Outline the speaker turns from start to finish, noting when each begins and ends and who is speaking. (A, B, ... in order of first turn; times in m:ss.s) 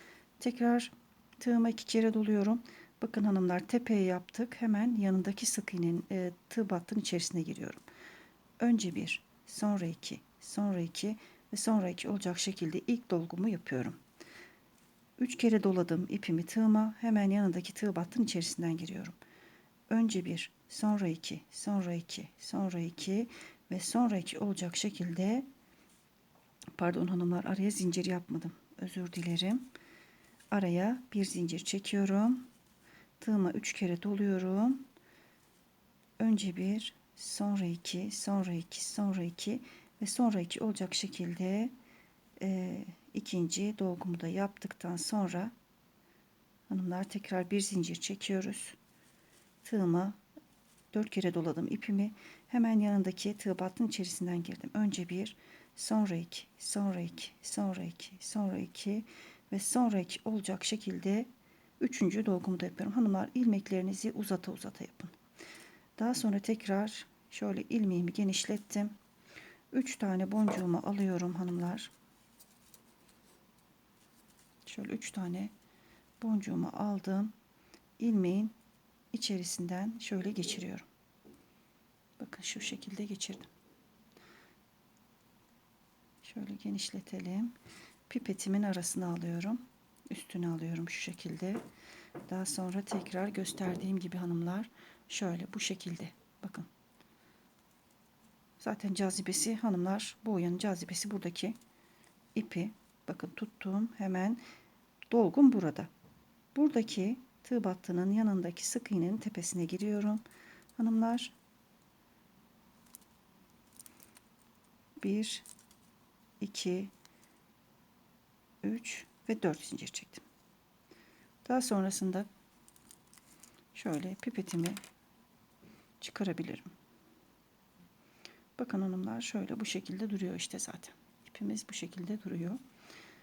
0:00.4-0:07.8 A
0:08.6-0:14.0 A
0:15.2-0:19.2 A
0:19.9-0:25.4 A
0:26.7-0:29.7 A
0:30.5-0:32.4 A
0:33.2-0:34.8 A
0:36.2-0:41.7 A
0:42.4-0:45.5 A
0:46.7-0:48.8 A
0:49.6-0:50.2 A
0:50.9-1:01.3 A
1:01.8-1:05.1 A
1:06.0-1:08.9 A
1:09.7-1:11.9 A
1:14.6-1:15.5 A
1:16.2-1:17.3 A
1:18.0-1:18.5 A
1:19.1-1:20.8 A
1:22.2-1:23.5 A
1:26.2-1:27.5 A
1:28.1-1:31.6 A
1:32.3-1:36.7 A
1:38.6-1:41.6 A
1:42.3-1:44.4 A
1:45.1-1:45.9 A
1:46.5-1:50.2 A
1:50.8-1:51.3 A
1:55.0-1:55.4 A
1:56.4-1:56.9 A
1:58.6-2:00.2 A
2:01.4-2:02.3 A
2:03.7-2:04.8 A
2:06.0-2:06.7 A
2:08.6-2:12.6 A